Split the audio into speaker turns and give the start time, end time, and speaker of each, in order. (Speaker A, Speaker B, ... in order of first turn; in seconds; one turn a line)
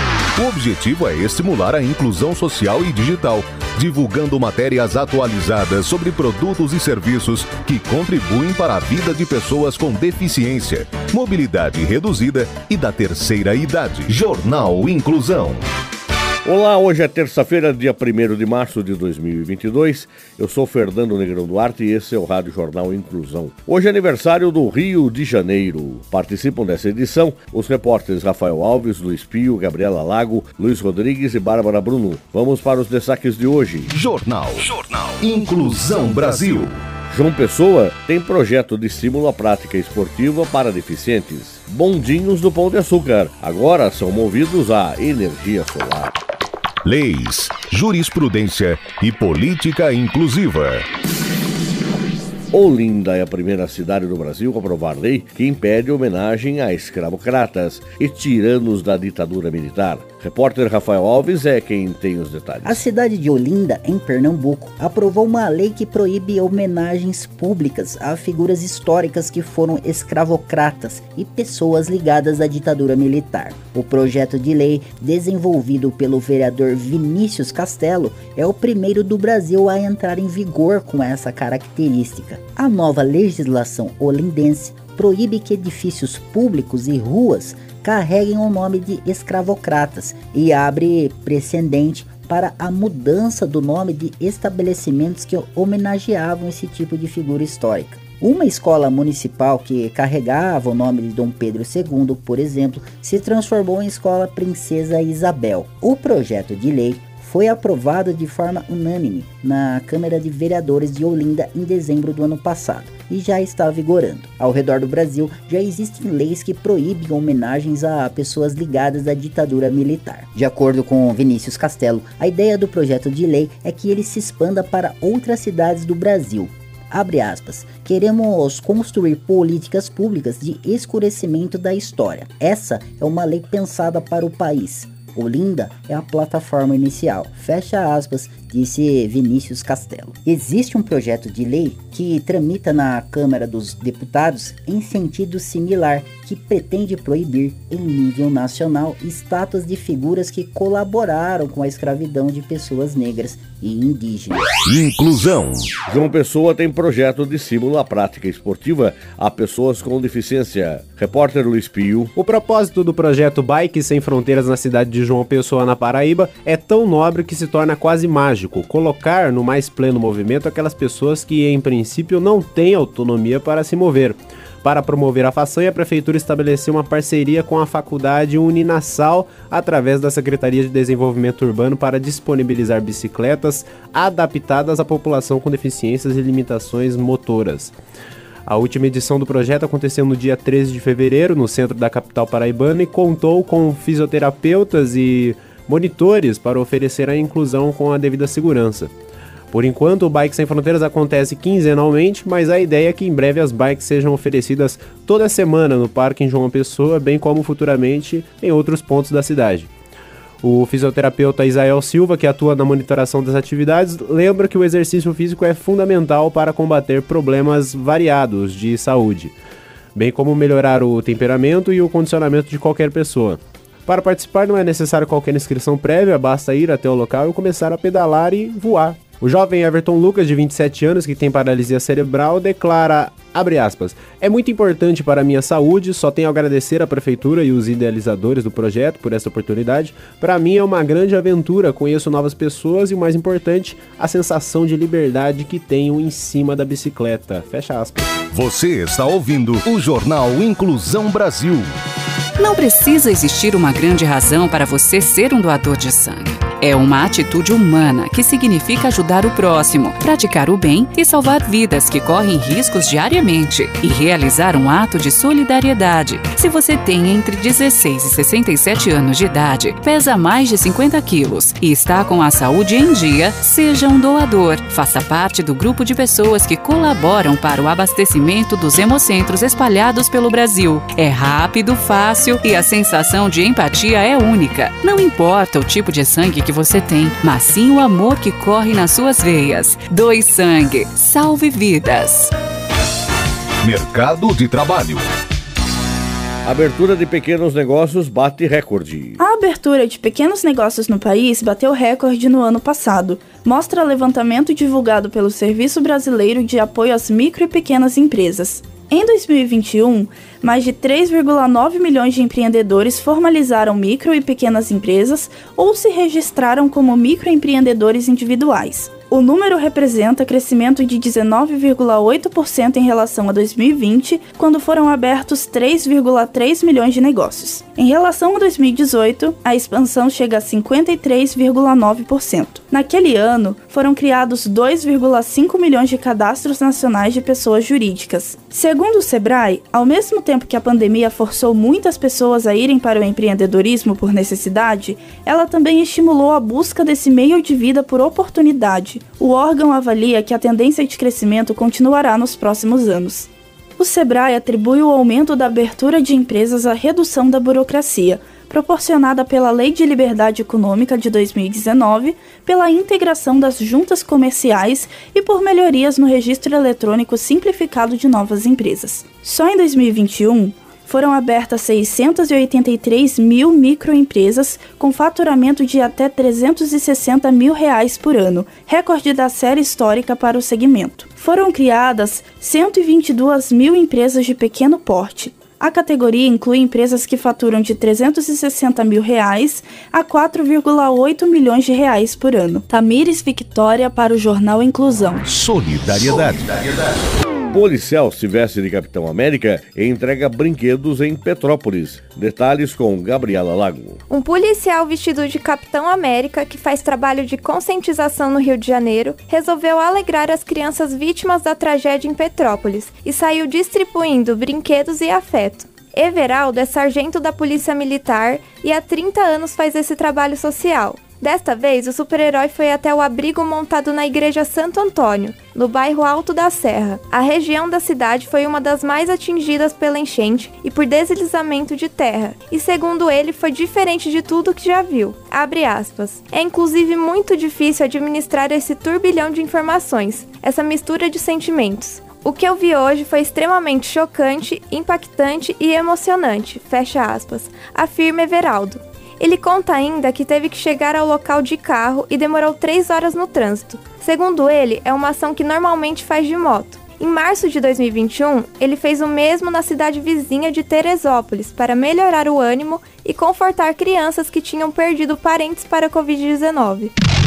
Speaker A: 0.3-15.6
Speaker B: 16.4-33.9
Speaker A: 33.9-36.7
Speaker B: 37.1-46.2
Speaker A: 46.8-50.8
Speaker B: 52.5-62.8
Speaker C: 62.6-154.4
Speaker A: 154.7-155.7
Speaker B: 155.9-162.1
Speaker D: 162.2-187.7
Speaker D: 188.4-198.9
Speaker D: 199.5-209.7
Speaker D: 210.4-219.3
Speaker D: 219.9-248.1
Speaker A: 248.3-251.7
Speaker E: 252.4-292.3
Speaker A: 293.6-295.0
Speaker B: 296.4-299.2
Speaker F: 299.2-395.2
Speaker A: 395.2-397.0
Speaker B: 397.5-404.0
Speaker G: 404.1-466.9